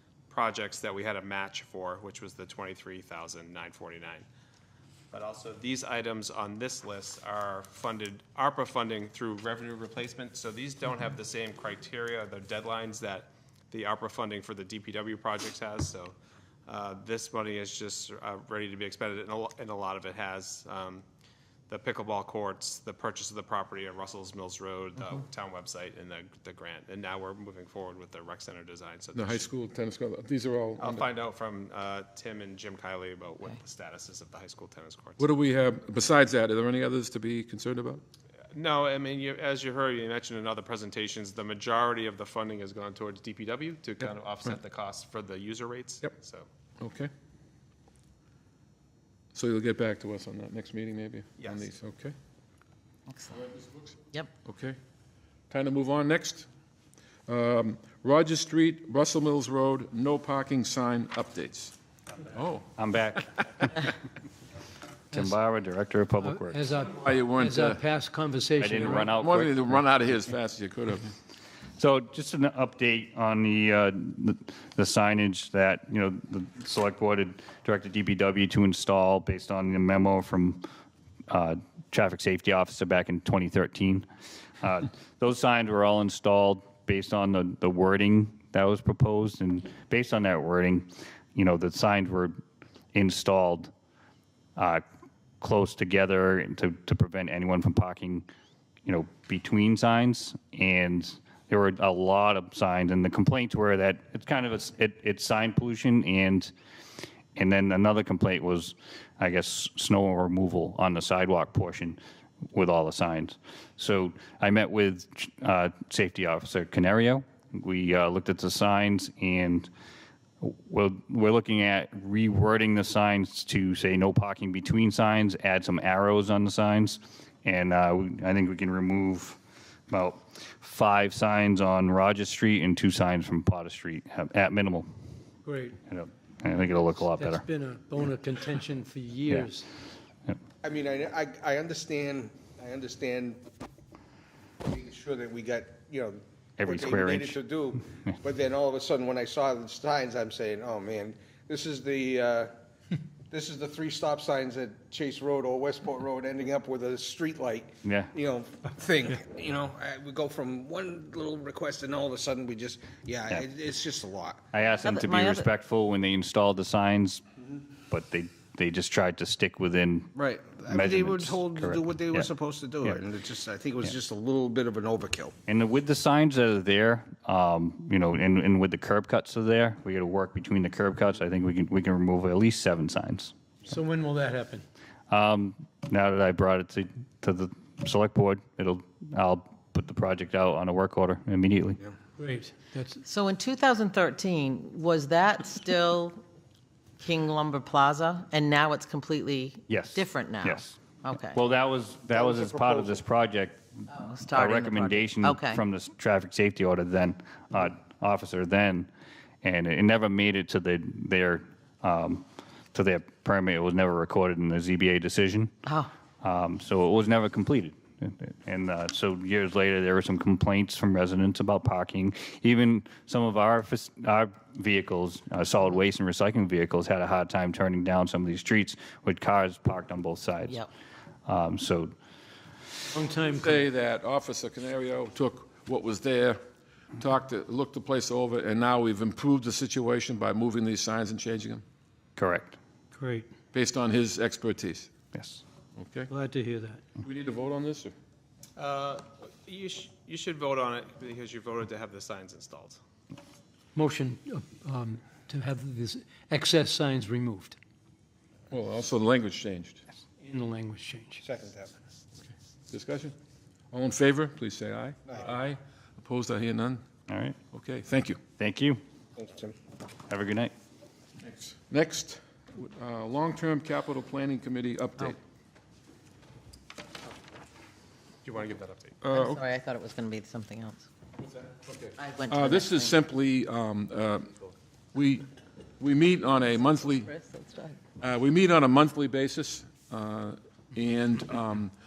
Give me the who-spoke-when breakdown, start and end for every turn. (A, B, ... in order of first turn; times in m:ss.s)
0:00.3-0:04.3 A
0:05.1-0:16.2 A
0:16.7-0:21.0 A
0:21.7-0:29.5 A
0:29.1-0:31.1 B
0:30.8-0:35.3 A
0:35.2-0:38.0 B
0:38.5-0:46.5 A
0:46.8-0:47.1 B
0:49.3-0:52.2 B
0:51.4-0:51.7 A
0:53.1-0:53.5 C
0:53.5-0:54.8 B
0:55.5-0:56.5 B
0:57.3-1:01.8 B
1:02.3-1:02.7 B
1:02.8-1:03.8 D
1:05.1-1:05.4 E
1:05.1-1:06.6 D
1:06.2-1:09.1 E
1:06.9-1:07.9 B
1:08.6-1:09.7 D
1:08.8-1:11.2 B
1:11.8-1:20.6 D
1:21.3-1:24.1 D
1:24.6-1:32.4 D
1:32.9-1:33.7 D
1:34.6-1:34.8 D
1:35.4-1:38.3 D
1:38.8-1:46.5 D
1:47.4-1:52.0 D
1:52.5-1:59.7 D
2:00.4-2:09.4 D
2:09.9-2:14.9 D
2:15.4-2:15.8 E
2:15.9-2:17.4 D
2:17.0-2:19.7 E
2:20.6-2:23.4 F
2:24.6-2:32.5 F
2:26.6-2:27.4 D
2:33.3-2:44.4 F
2:37.8-2:38.1 D
2:44.5-2:47.2 D
2:44.8-2:45.5 C
2:47.9-2:50.1 D
2:50.2-2:55.4 F
2:50.7-2:52.3 D
2:55.5-3:03.3 D
3:03.6-3:04.6 E
3:05.1-3:11.8 D
3:12.2-3:13.0 E
3:13.0-3:16.2 C
3:17.0-3:21.4 C
3:19.7-3:20.8 D
3:21.3-3:23.6 D
3:22.1-3:23.0 F
3:23.9-3:25.6 C
3:24.3-3:28.9 D
3:29.4-3:35.5 D
3:35.7-3:35.9 C
3:36.2-3:50.6 D
3:51.3-3:51.9 D
3:52.9-3:53.6 E
3:53.3-3:56.4 B
3:57.0-4:01.6 B
4:02.2-4:02.6 D
4:02.9-4:03.3 E
4:03.5-4:04.9 B
4:05.1-4:05.4 D
4:05.8-4:06.1 B
4:06.1-4:06.8 E
4:07.0-4:07.9 B
4:08.6-4:12.8 A
4:13.8-4:17.6 E
4:18.5-4:19.8 B
4:20.2-4:21.2 E
4:21.2-4:21.7 F
4:22.7-4:23.2 B
4:23.7-4:26.8 B
4:27.1-4:27.4 D
4:27.5-4:28.2 B
4:28.4-4:28.8 D
4:29.2-4:29.6 F
4:30.1-4:30.5 D
4:31.2-4:35.2 B
4:38.2-4:39.0 A
4:39.0-4:39.4 B
4:39.1-4:40.9 C
4:41.3-4:44.4 B
4:42.0-4:43.0 C
4:44.9-4:45.3 B
4:45.8-4:47.1 B
4:47.0-4:47.8 C
4:48.0-4:51.7 B